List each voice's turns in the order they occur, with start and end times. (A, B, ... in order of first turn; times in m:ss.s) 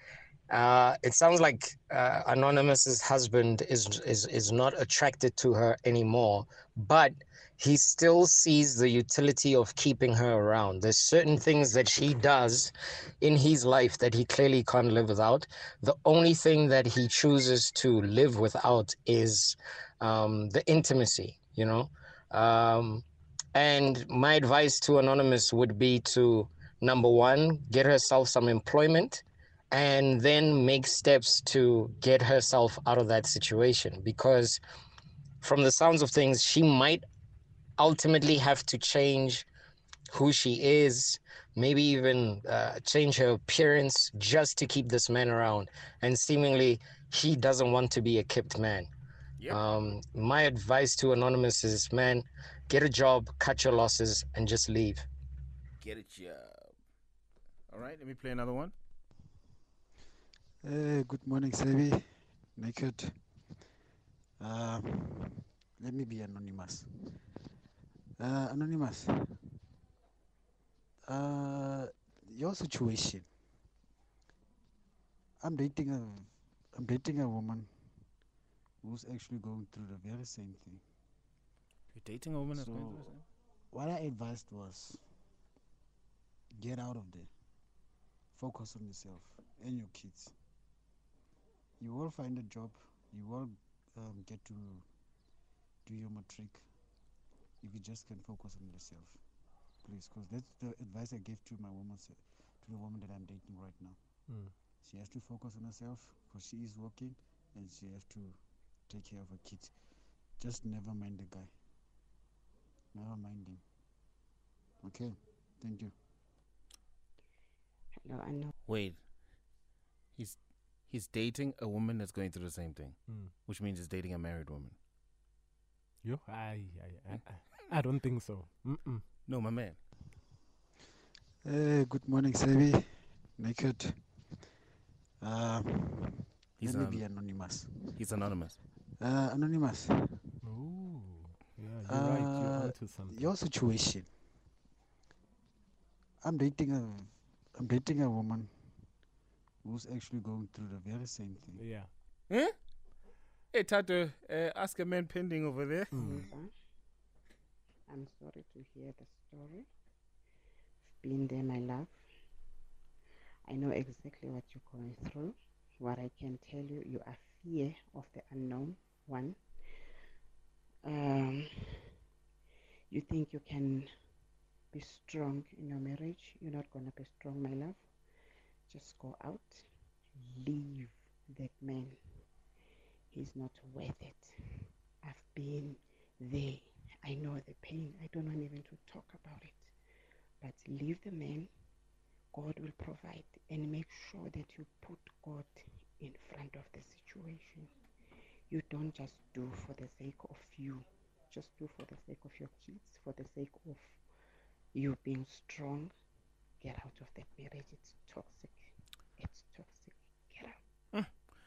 0:00.5-0:23.0 A
0:23.5-0:34.6 A
0:35.4-0:37.0 A
0:37.8-0:39.4 A
0:40.1-0:48.9 A
0:49.5-0:55.0 A
0:55.8-0:56.7 B
0:57.7-0:58.7 B
1:00.6-1:03.2 C
1:04.4-1:07.3 C
1:08.2-1:09.5 C
1:11.0-1:13.3 C
1:15.4-1:18.0 C
1:18.8-1:20.8 C
1:21.9-1:23.2 B
1:22.5-1:25.0 C
1:26.6-1:27.3 C
1:28.4-1:30.4 C
1:31.8-1:34.9 C
1:35.8-1:36.7 C
1:37.6-1:39.2 C
1:39.8-1:44.0 C
1:44.8-1:49.8 C
1:50.4-1:51.5 C
1:52.9-1:53.6 C
1:54.8-1:55.9 C
1:58.0-1:58.5 D
1:58.6-1:59.0 B
2:00.2-2:04.8 B
2:06.0-2:09.0 E
2:09.3-2:09.8 B
2:11.4-2:14.2 C
2:15.2-2:18.0 C
2:16.6-2:17.0 B
2:17.9-2:18.6 B
2:19.0-2:20.4 C
2:20.4-2:23.3 E
2:21.9-2:24.1 C
2:26.2-2:28.9 C
2:29.6-2:31.6 C
2:31.6-2:31.9 E
2:32.3-2:32.6 B
2:33.5-2:36.0 B
2:35.9-2:36.2 E
2:35.9-2:36.5 D
2:37.9-2:39.7 D
2:40.9-2:42.0 D
2:43.5-2:49.4 D
2:50.8-2:51.9 D
2:52.9-2:53.9 D
2:54.7-2:57.9 D
2:58.7-3:02.2 D
3:03.1-3:09.7 D
3:10.4-3:11.5 D
3:12.3-3:17.7 D
3:18.5-3:24.0 D
3:24.7-3:25.9 D
3:26.6-3:30.6 D